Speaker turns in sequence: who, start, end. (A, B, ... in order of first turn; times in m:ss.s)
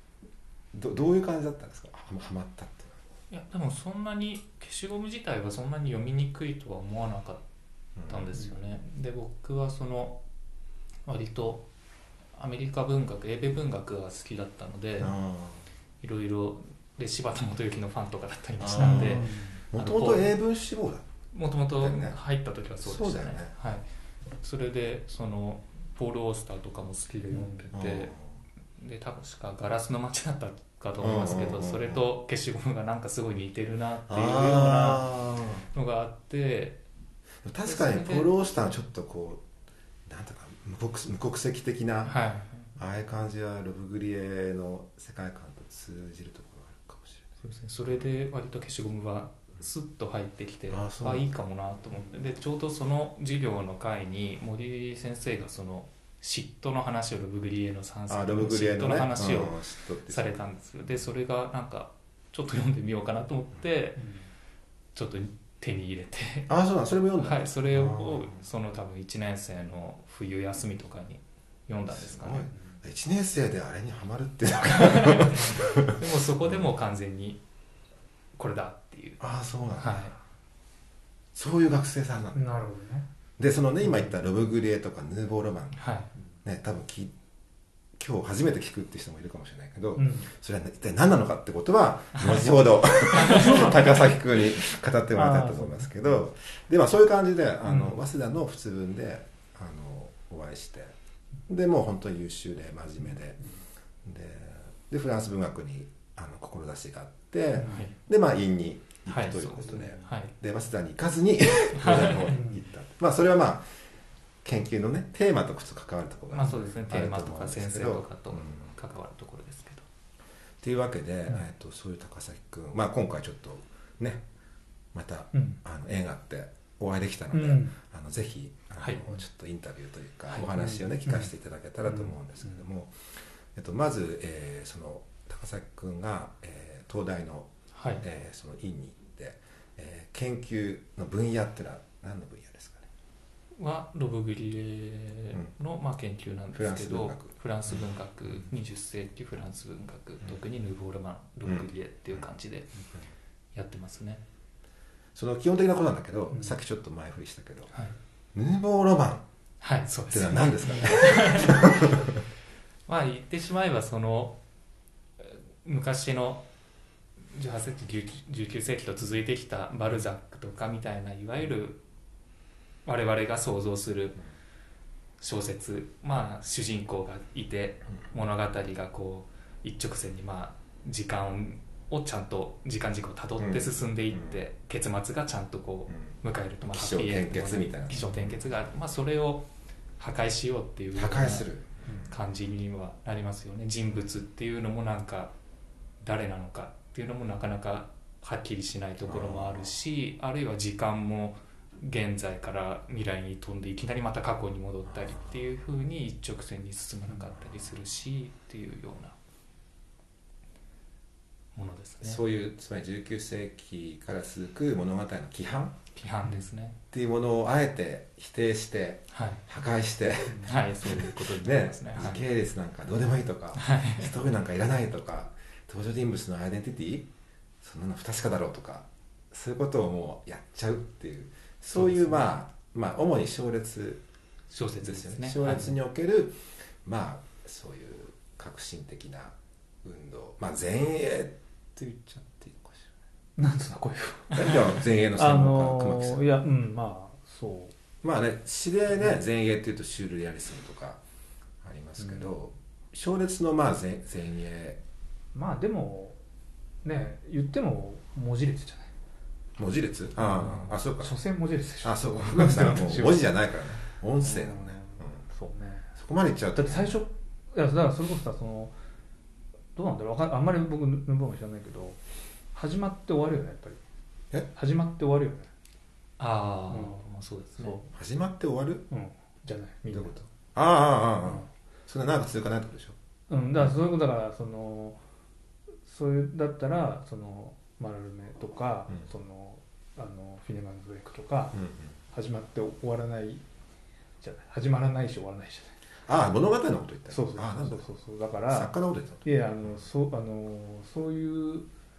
0:00.7-0:03.0 A
0:03.3-0:07.4 B
0:08.0-0:08.3 A
0:08.0-0:10.2 B
0:11.0-0:11.7 B
0:12.4-0:15.2 B
0:15.0-0:15.6 A
0:16.0-0:20.3 B
0:18.6-0:21.1 A
0:18.8-0:19.6 C
0:21.3-0:23.8 B
0:21.8-0:22.2 A
0:22.8-0:23.5 A
0:24.4-0:28.2 B
0:27.3-0:27.7 C
0:27.7-0:28.2 A
0:28.8-0:35.2 B
0:31.0-0:32.0 A
0:34.1-0:35.7 A
0:35.7-0:36.8 B
0:37.4-0:39.4 A
0:37.6-0:38.3 B
0:40.1-0:42.2 A
0:42.1-0:42.7 B
0:42.8-0:47.4 A
0:47.4-1:04.0 B
0:50.7-0:51.2 A
0:58.1-1:00.5 A
1:04.0-1:04.2 C
1:05.0-1:06.5 B
1:06.5-1:08.4 A
1:07.2-1:12.5 B
1:11.9-1:16.6 A
1:14.7-1:17.4 B
1:18.4-1:19.2 B
1:19.2-1:20.1 A
1:19.8-1:20.2 B
1:21.4-1:22.6 A
1:22.4-1:23.1 C
1:23.4-1:25.8 A
1:25.8-1:26.1 B
1:26.4-1:27.1 A
1:28.0-1:40.9 A
1:30.0-1:30.3 C
1:32.2-1:32.6 B
1:33.1-1:33.7 B
1:33.1-1:34.0 C
1:35.1-1:36.2 C
1:37.7-1:38.0 C
1:41.5-1:43.4 A
1:44.0-1:53.6 A
1:47.6-1:47.9 C
1:47.6-1:47.9 B
1:49.1-1:50.3 B
1:49.8-1:50.1 C
1:51.8-1:52.3 B
1:52.3-1:52.7 C
1:54.4-1:58.7 A
1:56.3-1:59.8 B
2:00.6-2:04.2 A
2:04.9-2:22.9 A
2:05.3-2:05.6 C
2:07.3-2:07.8 C
2:10.6-2:11.3 C
2:17.7-2:18.0 B
2:23.6-2:32.7 B
2:26.5-2:27.8 A
2:33.5-2:34.2 B
2:35.2-2:37.7 A
2:38.4-2:39.2 A
2:39.6-2:41.7 B
2:40.1-2:42.2 A
2:42.9-2:44.4 B
2:45.2-2:46.4 B
2:47.2-2:51.8 B
2:52.8-2:54.2 B
2:55.2-3:09.5 B
3:03.4-3:04.4 A
3:06.6-3:08.5 A
3:10.0-3:15.3 B
3:11.0-3:11.7 A
3:16.0-3:29.2 B
3:19.0-3:19.7 A
3:31.6-3:32.2 B
3:32.0-3:35.8 A
3:36.0-3:36.8 B
3:36.9-3:47.1 A
3:39.1-3:39.4 B
3:40.3-3:42.2 B
3:43.6-3:44.1 B
3:47.6-3:54.0 A
3:51.8-3:52.2 B
3:54.5-3:55.7 B
3:54.8-4:02.9 A
4:03.4-4:07.7 C
4:04.3-4:06.2 A
4:08.0-4:11.0 A
4:11.6-4:14.8 A
4:12.0-4:12.3 C
4:15.3-4:16.2 C
4:16.8-4:18.9 C
4:19.6-4:21.2 A
4:20.2-4:23.2 C
4:21.8-4:25.2 A
4:24.2-4:25.9 C
4:26.0-4:27.0 A
4:26.6-4:28.7 C
4:29.8-4:32.0 C
4:32.5-4:33.8 C
4:34.5-4:35.5 C
4:36.2-4:37.8 B
4:36.7-4:37.0 C
4:37.6-4:37.9 C
4:37.9-4:38.8 A
4:38.9-4:40.3 C
4:39.9-4:43.0 A
4:43.3-4:45.0 C
4:45.8-4:51.6 C
4:51.5-4:51.9 A
4:52.1-4:53.4 C
4:54.2-4:55.8 C
4:56.1-4:57.9 A
4:57.1-5:01.7 C
4:58.5-4:59.2 A